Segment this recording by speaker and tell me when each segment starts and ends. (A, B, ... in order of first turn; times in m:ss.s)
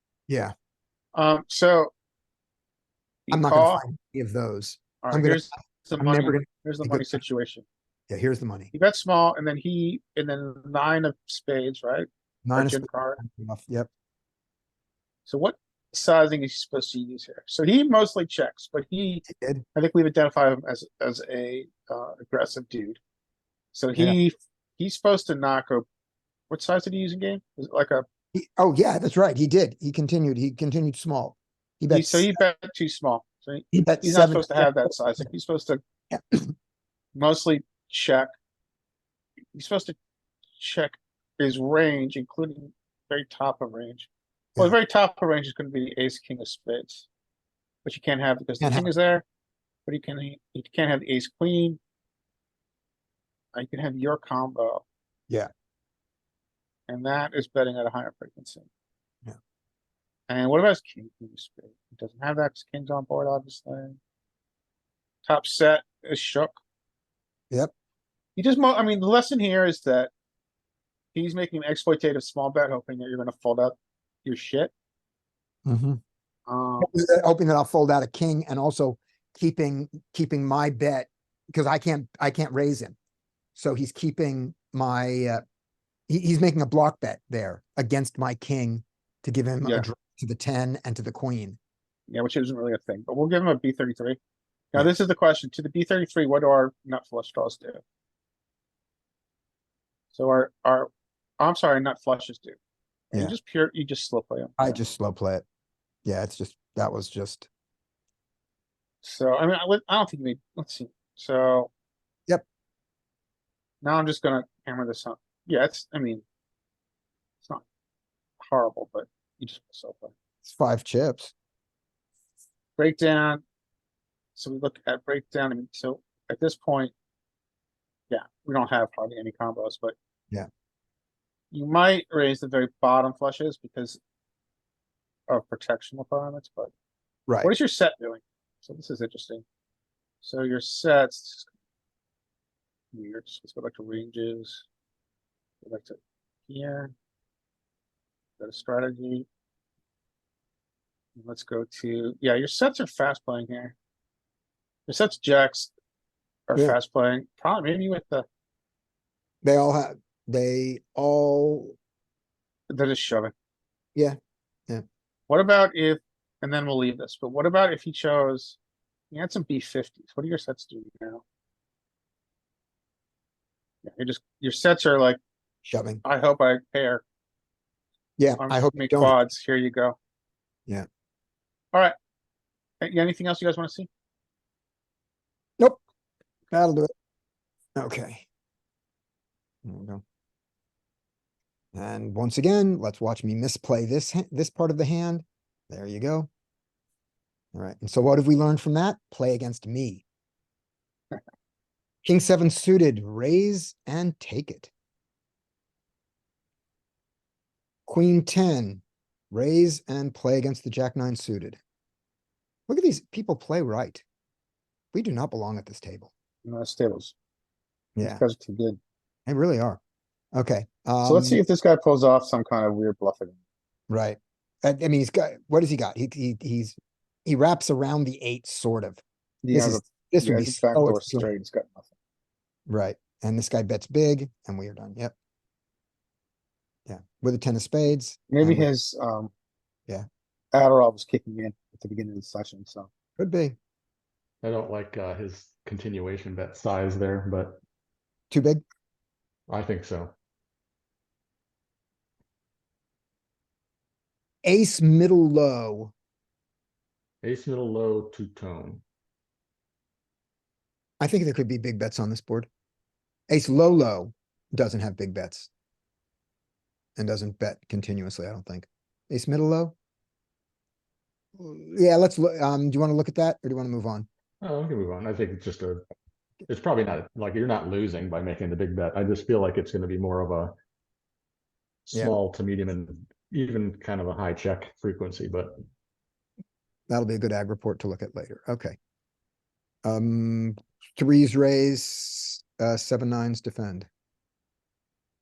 0:00.3-0:00.5 A
0:01.1-0:01.9 B
0:03.3-0:03.8 B
0:03.3-0:07.2 A
0:05.0-0:07.6 B
0:08.1-0:08.7 A
0:08.7-0:13.2 B
0:12.4-0:13.9 A
0:15.2-0:23.0 B
0:19.3-0:19.6 A
0:23.7-0:25.8 B
0:26.5-0:28.0 B
0:28.3-0:32.4 A
0:31.9-0:35.8 B
0:33.7-0:34.7 A
0:36.1-0:36.5 A
0:37.1-0:38.3 B
0:39.5-0:40.0 B
0:40.6-0:47.1 B
0:47.8-0:49.2 B
0:48.6-0:48.9 A
0:49.8-0:51.8 B
0:53.5-0:54.8 B
0:56.9-0:58.7 B
1:00.3-1:04.0 B
1:05.2-1:06.5 B
1:08.4-1:10.1 B
1:11.1-1:14.7 B
1:15.6-1:16.0 A
1:16.5-1:16.9 B
1:16.8-1:23.0 A
1:23.6-1:25.4 A
1:26.1-1:31.6 A
1:32.1-1:34.2 B
1:34.7-1:37.8 B
1:40.1-1:42.6 B
1:43.1-1:44.8 B
1:44.6-1:45.4 A
1:46.0-1:47.5 A
1:49.0-1:51.7 B
1:53.8-1:56.2 B
1:58.4-2:00.1 B
2:00.4-2:01.3 A
2:02.8-2:03.4 B
2:04.3-2:06.9 B
2:08.1-2:09.9 B
2:11.5-2:14.0 B
2:15.3-2:16.7 B
2:17.3-2:17.5 A
2:17.4-2:19.4 B
2:20.2-2:21.5 B
2:22.9-2:24.6 B
2:25.6-2:26.9 B
2:28.4-2:29.2 B
2:31.2-2:33.7 B
2:34.9-2:35.7 B
2:36.5-2:38.2 B
2:39.4-2:41.7 A
2:42.7-2:43.3 B
2:45.3-2:48.6 B
2:49.1-2:51.2 B
2:53.8-2:55.2 B
2:55.6-2:56.0 A
2:56.0-2:57.0 B
2:58.2-2:59.2 A
2:58.4-3:00.0 B
3:02.8-3:03.9 B
3:06.5-3:06.9 A
3:07.8-3:08.2 A
3:09.6-3:10.0 A
3:11.7-3:16.3 A
3:17.5-3:20.0 A
3:22.0-3:24.7 A
3:27.9-3:31.6 A
3:32.7-3:34.0 A
3:34.9-3:36.1 A
3:36.4-3:37.1 B
3:38.0-3:38.2 A
3:38.0-3:38.8 B
3:39.3-3:39.8 A
3:40.3-3:41.4 A
3:41.0-3:43.4 B
3:43.9-3:51.3 A
3:49.4-3:51.9 B
3:52.7-3:55.1 A
3:56.9-3:58.7 A
3:58.3-3:59.3 B
4:00.5-4:02.9 B
4:03.2-4:03.6 A
4:04.4-4:07.6 C
4:08.3-4:08.6 A
4:09.5-4:10.1 C
4:14.4-4:15.9 A
4:17.2-4:18.8 C
4:21.0-4:22.5 A
4:23.3-4:25.5 A
4:27.0-4:29.7 A
4:31.4-4:34.1 A
4:34.4-4:35.8 C
4:36.5-4:40.6 C
4:41.9-4:45.6 C
4:41.9-4:42.2 A
4:46.9-4:48.8 A
4:49.8-4:53.9 A